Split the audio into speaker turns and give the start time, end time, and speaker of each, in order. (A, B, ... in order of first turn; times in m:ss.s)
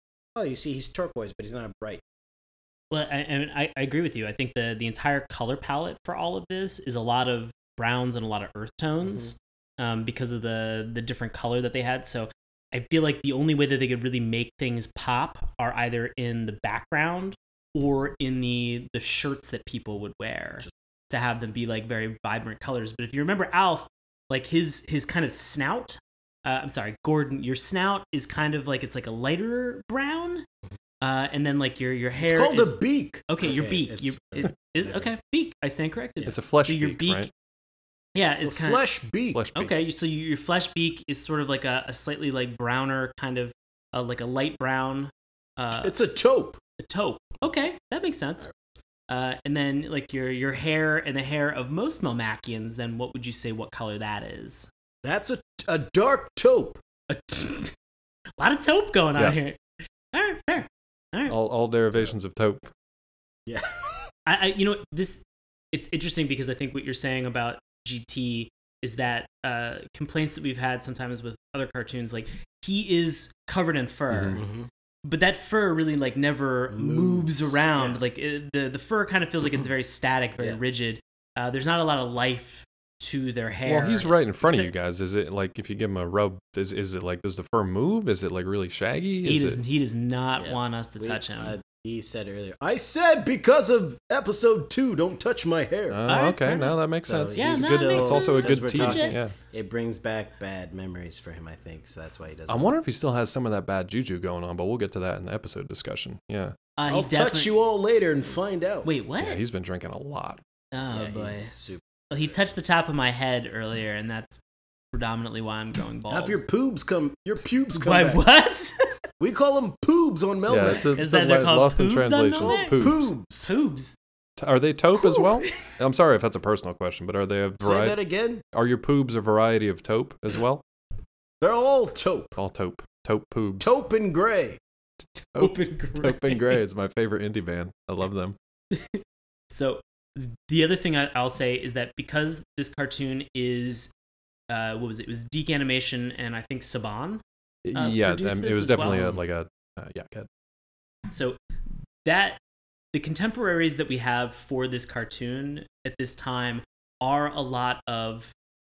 0:00.4-0:02.0 A
0:02.9-0:30.5 B
0:09.0-0:09.3 A
0:31.0-0:37.3 B
0:32.2-0:35.1 A
0:36.3-0:37.3 C
0:38.2-0:38.8 B
0:38.4-0:39.4 A
0:39.3-0:39.8 C
0:39.6-0:46.0 B
0:45.8-0:46.6 A
0:46.8-0:48.5 B
0:49.1-0:54.7 B
0:55.0-0:56.8 A
0:57.1-0:57.7 B
0:58.4-0:59.6 B
1:00.1-1:01.4 B
1:01.3-1:02.7 C
1:03.5-1:04.1 A
1:04.3-1:14.4 B
1:14.1-1:14.4 C
1:14.4-1:14.7 A
1:15.0-1:24.7 B
1:16.7-1:18.0 A
1:23.7-1:29.6 C
1:29.2-1:31.6 B
1:30.4-1:36.0 A
1:35.9-1:39.3 C
1:36.1-1:36.8 B
1:37.0-1:42.7 A
1:37.4-1:39.2 B
1:42.5-1:46.6 C
1:46.8-1:47.5 B
1:46.9-1:48.9 A
1:48.8-1:49.4 B
1:49.2-1:50.4 C
1:50.7-1:51.5 B
1:50.9-1:52.5 A
1:52.1-1:54.4 B
1:54.9-1:56.4 B
1:56.1-1:58.2 A
1:57.7-1:58.8 B
1:59.2-2:00.9 A
2:00.5-2:03.1 C
2:00.9-2:02.9 B
2:02.4-2:03.5 A
2:03.4-2:04.0 B
2:04.4-2:08.0 C
2:05.0-2:05.7 B
2:07.6-2:08.4 A
2:08.5-2:10.6 C
2:11.4-2:12.4 A
2:12.4-2:13.7 C
2:13.6-2:14.6 A
2:15.3-2:18.4 C
2:15.4-2:16.6 B
2:18.7-2:23.9 B
2:24.5-2:27.2 B
2:27.6-2:30.3 C
2:27.8-2:29.2 B
2:31.1-2:31.4 B
2:32.0-2:32.4 B
2:32.9-2:38.3 B